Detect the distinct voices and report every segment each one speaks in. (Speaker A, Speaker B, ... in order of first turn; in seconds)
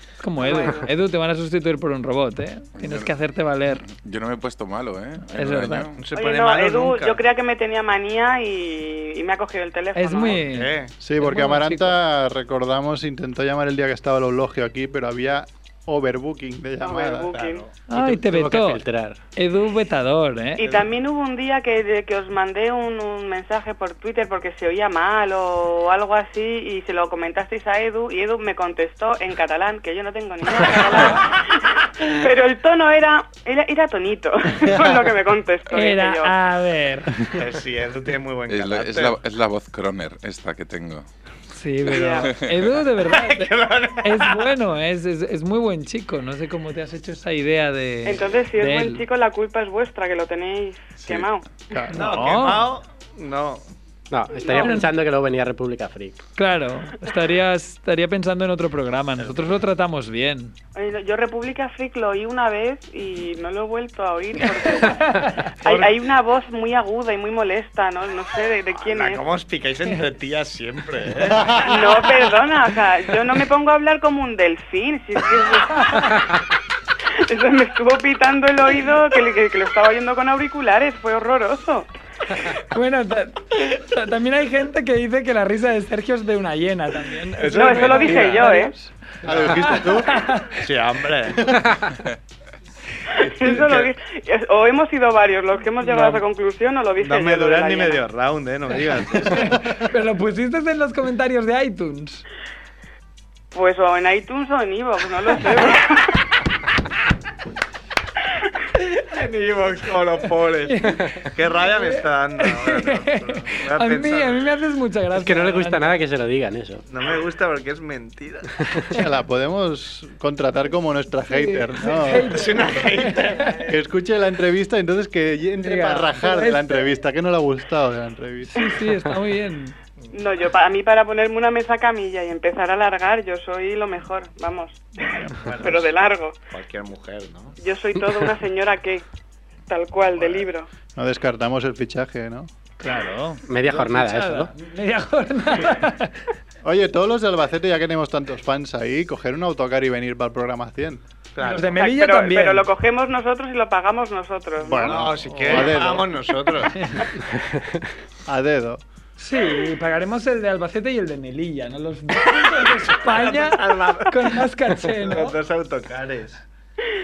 Speaker A: 0.2-3.8, 5.3-5.9, 9.9-11.9, 17.9-18.8, 19.3-20.6, 35.7-37.2, 41.5-49.0, 51.9-52.7, 54.5-54.9, 56.4-60.5, 64.6-65.4, 75.8-76.2, 82.4-88.9, 89.5-90.5, 95.8-96.2, 99.2-102.2, 110.7-111.0, 111.7-115.9, 121.3-123.5, 125.6-126.9, 128.5-129.8, 142.8-146.2, 151.4-152.7, 156.8-157.0, 159.2-165.3
Speaker B: 0.4-0.9, 6.1-10.4, 16.8-17.6, 20.6-36.3, 41.9-42.3, 48.0-51.4, 54.4-54.8, 60.8-69.2, 71.6-76.2, 77.2-81.9, 87.5-88.7, 93.2-98.0, 103.5-106.2, 130.1-136.3, 137.6-139.0, 139.7-140.7, 151.8-155.6
Speaker C: 2.8-3.1, 3.8-6.0, 38.5-41.0
Speaker D: 6.0-7.2, 10.4-10.9, 17.3-17.8, 20.6-20.9, 37.3-39.2, 43.1-44.5, 51.9-53.6, 65.6-66.0, 68.8-72.1, 87.4-88.6, 89.2-89.9, 90.5-91.7, 93.4-93.9, 97.0-99.6, 108.8-114.5, 116.9-118.6, 122.1-123.8, 135.4-135.9, 136.5-137.6, 151.3-151.8, 154.8-156.9, 162.9-166.4
Speaker E: 11.0-17.3, 51.7-52.0, 71.3-71.9, 89.2-90.2, 119.0-122.5, 123.7-128.7, 135.0-135.8, 141.0-142.5, 146.6-151.0, 154.6-156.2, 158.2-158.8
Speaker F: 17.9-19.2, 54.1-56.2, 115.1-116.8, 143.5-144.5